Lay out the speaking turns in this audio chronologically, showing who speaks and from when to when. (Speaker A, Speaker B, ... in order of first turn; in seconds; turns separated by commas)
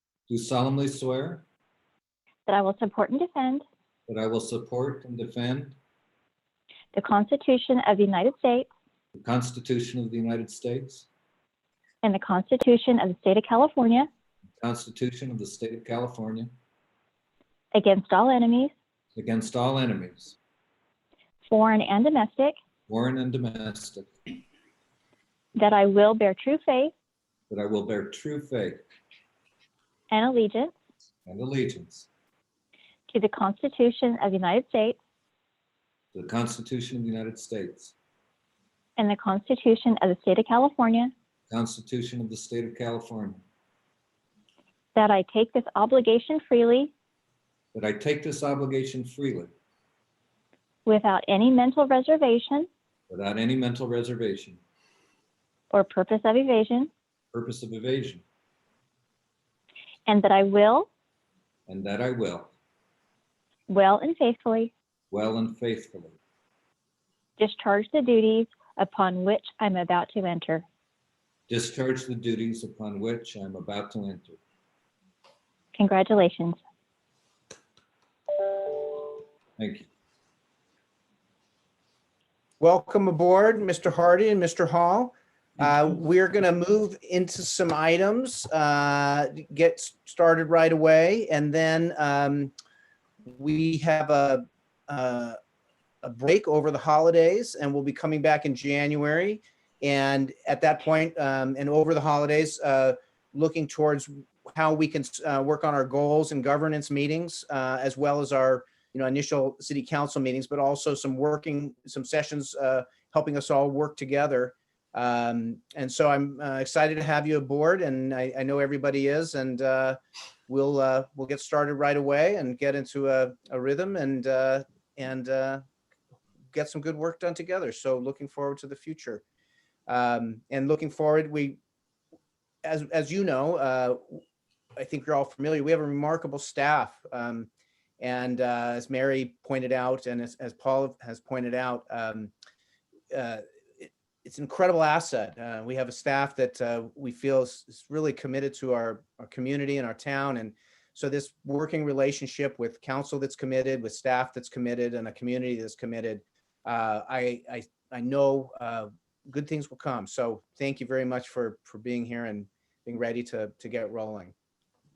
Speaker A: 0.3-1.4, Speaker B: 2.5-3.6, Speaker A: 4.1-5.8, Speaker B: 6.9-8.7, Speaker A: 9.1-11.1, Speaker B: 12.0-14.1, Speaker A: 14.6-16.5, Speaker B: 17.7-18.7, Speaker A: 19.1-20.3, Speaker B: 21.5-22.5, Speaker A: 22.9-24.1, Speaker B: 25.6-26.9, Speaker A: 27.5-28.8, Speaker B: 30.1-30.7, Speaker A: 31.2-32.1, Speaker B: 33.1-35.0, Speaker A: 36.1-37.9, Speaker B: 39.0-41.1, Speaker A: 41.5-43.4, Speaker B: 44.9-46.9, Speaker A: 47.7-49.5, Speaker B: 50.9-52.7, Speaker A: 53.1-54.6, Speaker B: 55.7-56.9, Speaker A: 57.3-58.2, Speaker B: 60.1-60.9, Speaker A: 61.7-62.5, Speaker B: 63.7-64.7, Speaker A: 65.1-66.2, Speaker B: 67.4-70.6, Speaker A: 71.5-74.4, Speaker B: 75.7-76.6, Speaker A: 79.6-79.9, Speaker C: 82.6-92.5, Speaker C: 93.3-95.4, Speaker C: 96.0-125.6, Speaker C: 126.5-129.2, Speaker C: 129.9-131.6, Speaker C: 132.6-134.2, Speaker C: 134.8-137.5, Speaker C: 138.0-142.3, Speaker C: 143.1-164.3